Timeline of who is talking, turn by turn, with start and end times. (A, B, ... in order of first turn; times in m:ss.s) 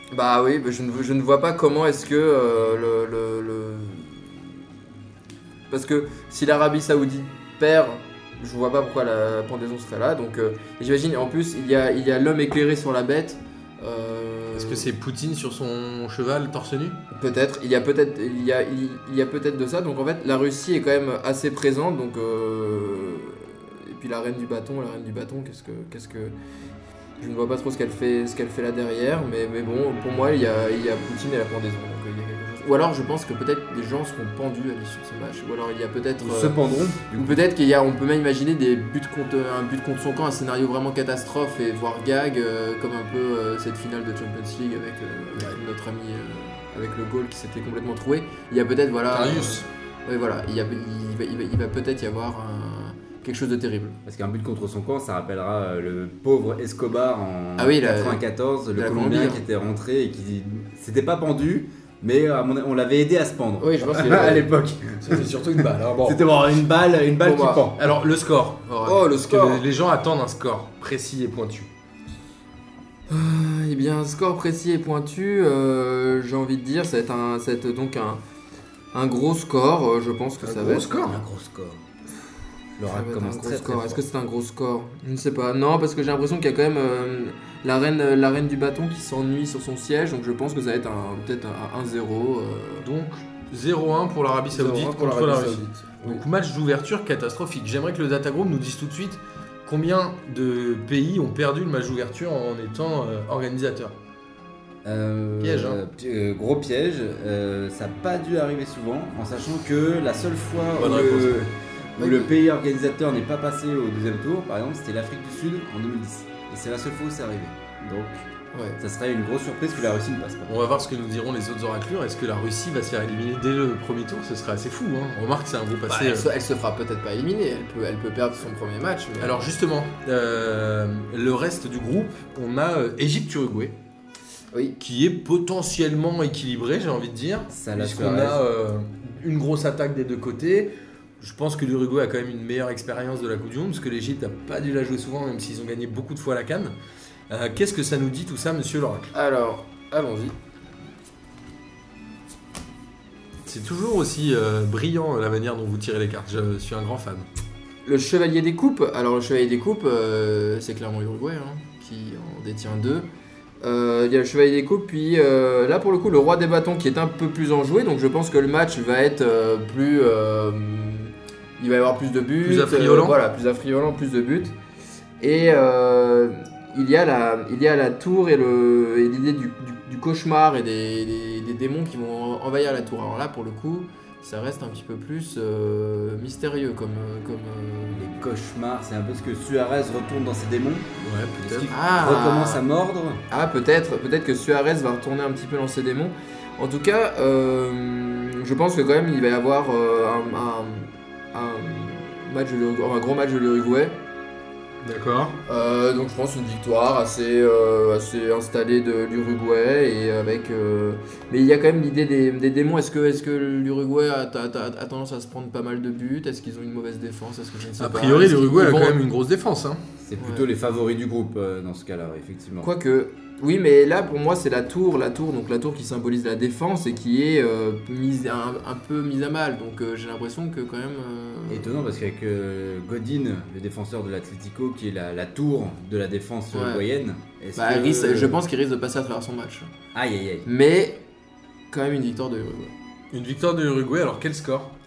0:00.1-0:04.5 A
0:05.7-0:14.9 A
0:14.5-0:17.0 B
0:17.1-0:26.3 A
0:27.2-0:54.0 A
0:36.2-0:37.4 C
0:49.1-0:49.6 B
0:54.0-1:07.8 C
0:57.6-0:59.4 A
1:03.6-1:04.5 A
1:05.0-1:06.2 B
1:07.2-1:07.7 A
1:07.8-1:11.7 B
1:08.8-1:09.6 A
1:13.1-1:18.2 A
1:18.9-1:20.9 A
1:20.4-1:21.2 B
1:20.9-1:21.8 C
1:22.8-1:24.0 C
1:22.9-1:32.9 A
1:32.8-1:43.9 B
1:34.5-1:36.2 A
1:44.8-1:58.3 C
1:45.4-1:45.8 B
1:50.8-1:51.5 B
1:52.0-1:52.4 A
1:58.5-1:58.8 A
1:58.8-2:00.6 C
2:00.5-2:06.3 B
2:05.9-2:09.5 A
2:09.2-2:13.8 B
2:14.5-2:14.8 A
2:14.8-2:26.8 B
2:17.5-2:18.4 C
2:27.3-2:29.1 B
2:29.1-2:30.3 A
2:33.5-2:37.3 B
2:37.8-2:43.1 A
2:43.6-2:54.6 A
2:52.4-2:53.2 B
2:55.2-3:08.0 A
3:07.9-3:13.2 C
3:11.0-3:11.7 B
3:11.7-3:12.6 A
3:13.3-3:24.0 A
3:24.8-3:25.4 B
3:25.4-3:39.0 A
3:37.8-3:39.8 B
3:40.0-3:42.7 C
3:40.2-3:40.4 A
3:42.6-3:51.8 A
3:51.5-3:58.4 C
3:56.5-3:56.8 A
3:57.6-3:59.7 A
3:59.9-4:00.5 C
4:00.4-4:01.0 A
4:01.7-4:02.7 A
4:03.1-4:04.7 B